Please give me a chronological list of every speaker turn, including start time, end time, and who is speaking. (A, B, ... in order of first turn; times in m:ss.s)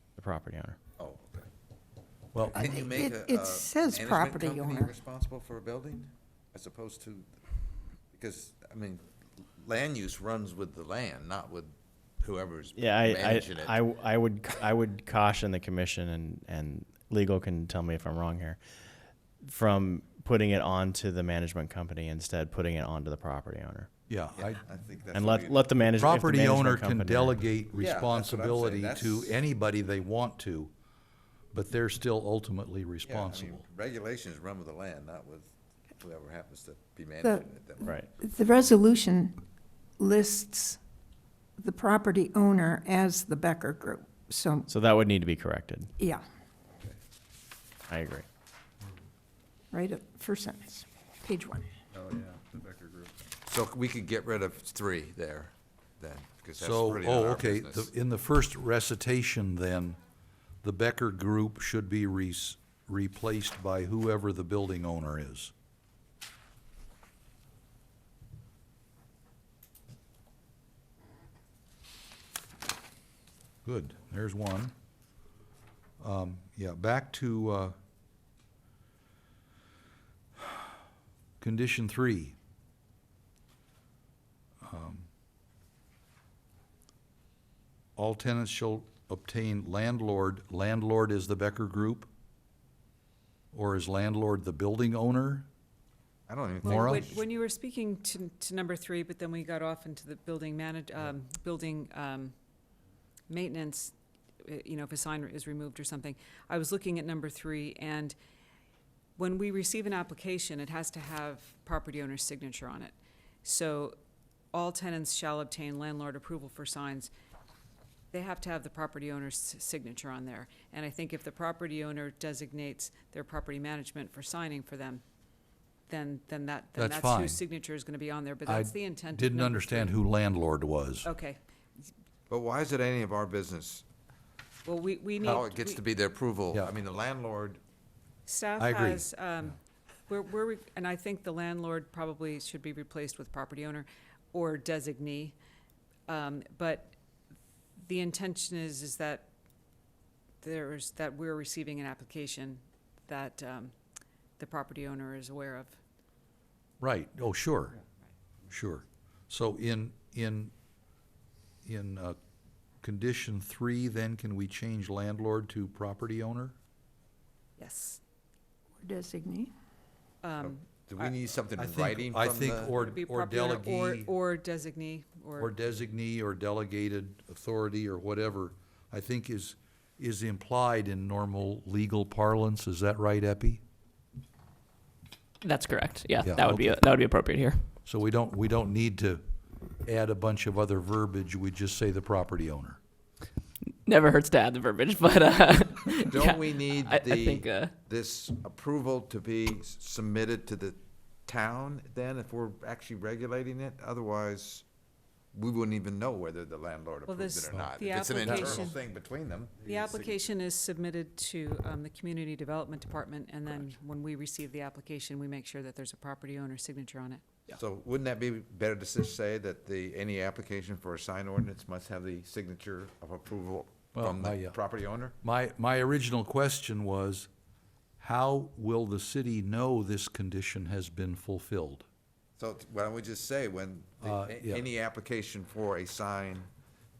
0:00.2-0:00.8 A
0:01.0-0:01.5 B
0:02.3-0:02.7 C
0:02.4-0:07.3 B
0:02.5-0:04.9 D
0:08.1-0:13.8 B
0:12.7-0:18.6 A
0:19.4-0:23.9 A
0:24.1-0:24.6 C
0:24.3-0:26.0 B
0:25.1-0:27.4 A
0:26.0-0:30.7 C
0:27.8-0:29.4 B
0:31.5-0:33.6 C
0:33.0-0:38.0 B
0:37.8-0:38.1 A
0:38.2-0:39.4 D
0:40.0-0:40.8 D
0:41.6-0:44.7 D
0:44.7-0:45.9 A
0:46.0-0:46.2 D
0:47.9-0:48.2 A
0:49.7-0:51.7 D
0:52.0-0:57.9 B
0:56.6-1:00.0 C
1:00.6-1:05.5 C
1:13.6-1:14.7 C
1:16.0-1:17.7 C
1:20.4-1:20.6 C
1:21.4-1:22.4 C
1:24.6-1:25.1 C
1:28.0-1:32.1 C
1:33.5-1:35.5 C
1:36.3-1:37.2 B
1:36.6-1:37.1 C
1:36.6-1:42.3 E
1:43.3-1:48.2 E
1:49.2-1:54.0 E
1:54.5-1:57.1 E
1:58.1-2:05.0 E
2:05.9-2:09.9 E
2:06.8-2:07.4 C
2:08.4-2:11.1 C
2:11.0-2:11.4 E
2:12.3-2:13.8 B
2:14.6-2:15.8 E
2:15.2-2:17.6 B
2:18.2-2:19.6 E
2:18.6-2:19.0 C
2:20.1-2:25.4 E
2:26.1-2:26.9 E
2:27.8-2:29.3 E
2:30.4-2:33.8 E
2:34.4-2:35.8 E
2:36.8-2:37.8 C
2:38.5-2:40.5 C
2:41.6-2:42.2 C
2:42.8-2:46.5 C
2:47.6-2:48.0 E
2:48.8-2:49.5 D
2:50.2-2:51.1 E
2:50.4-2:52.7 B
2:51.6-2:54.1 C
2:52.7-2:55.5 E
2:55.4-3:03.6 C
3:05.4-3:07.6 F
3:06.2-3:06.8 C
3:07.8-3:09.2 C
3:09.8-3:12.8 C
3:13.8-3:17.7 F
3:16.0-3:24.6 B
3:25.3-3:30.2 B
3:27.0-3:28.8 E
3:28.2-3:28.7 C
3:29.6-3:37.5 E
3:37.5-3:45.2 B
3:43.9-3:44.6 C
3:45.2-3:47.3 C
3:48.0-3:51.8 C
3:52.4-3:56.5 B
3:54.0-3:54.6 C